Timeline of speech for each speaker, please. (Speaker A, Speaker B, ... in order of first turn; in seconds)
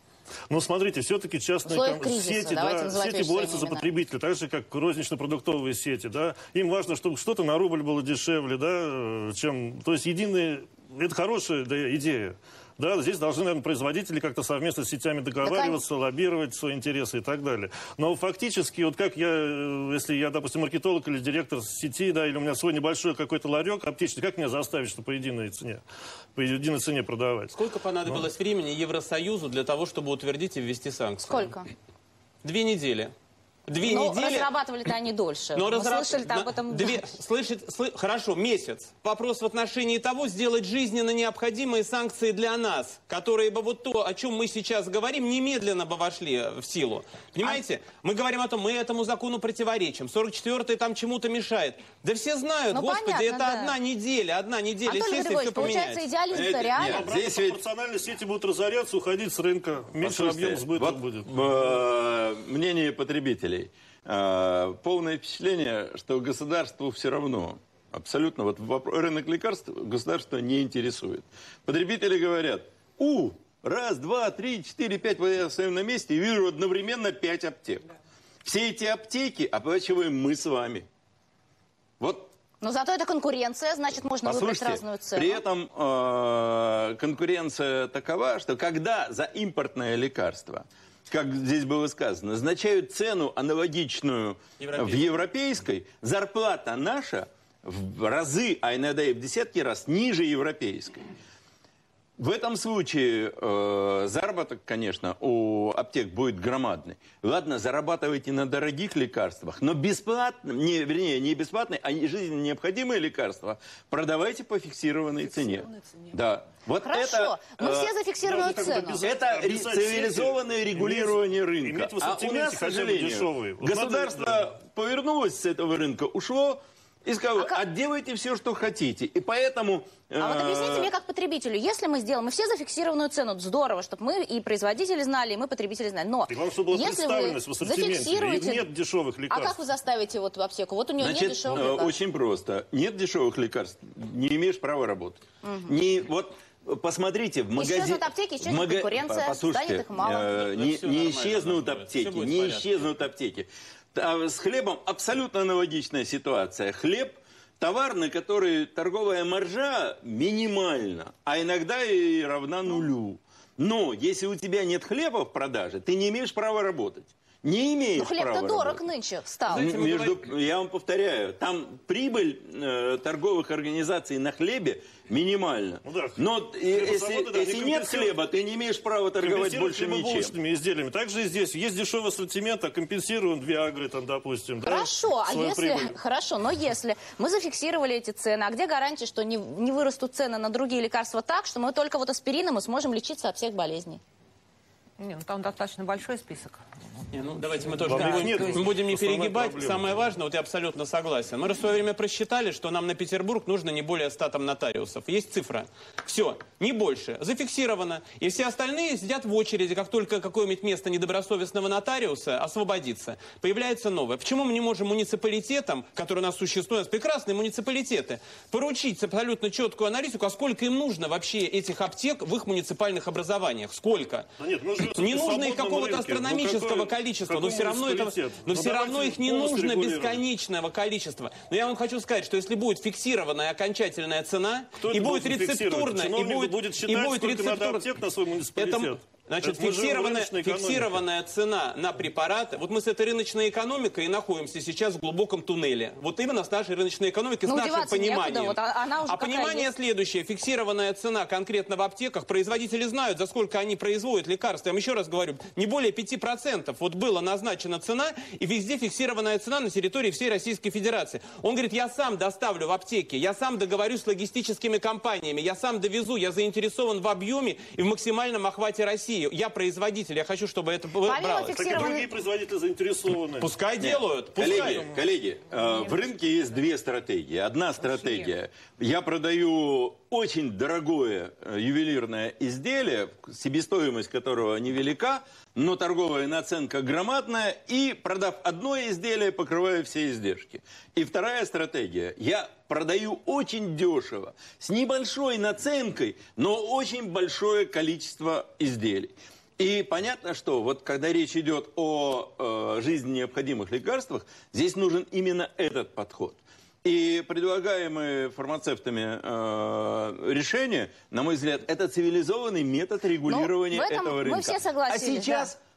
Speaker A: 0.5-25.8, 26.4-27.5, 56.8-61.3, 118.2-124.5, 136.3-139.6, 175.8-178.2, 179.2-185.9, 197.8-200.1, 224.4-230.2, 234.8-241.0, 271.5-273.5, 274.4-275.1
Speaker B: 1.6-3.9, 15.4-15.8, 31.3-31.7, 33.8-37.1, 52.7-53.8, 54.9-57.1, 82.6-85.4, 116.8-119.0, 127.4-127.6, 130.2-138.7, 139.3-141.9, 145.4-145.7, 147.6-150.3, 168.0-169.7, 184.6-194.0, 247.5-249.7, 271.1-272.1, 313.3-315.5
Speaker C: 27.5-31.5, 32.4-33.1, 33.7-34.5, 35.5-56.0, 94.6-95.2, 150.3-152.8, 169.5-170.2, 197.1-224.3, 224.8-237.9, 238.6-271.7, 273.4-274.9
Speaker D: 56.3-57.6, 60.0-77.9, 78.4-80.9, 82.0-82.3, 84.2-101.1, 102.2-117.9, 119.0-130.9, 141.0-168.8, 169.5-180.3, 273.8-315.6
Speaker E: 115.3-116.1, 195.0-196.6, 197.8-198.7, 277.8-278.3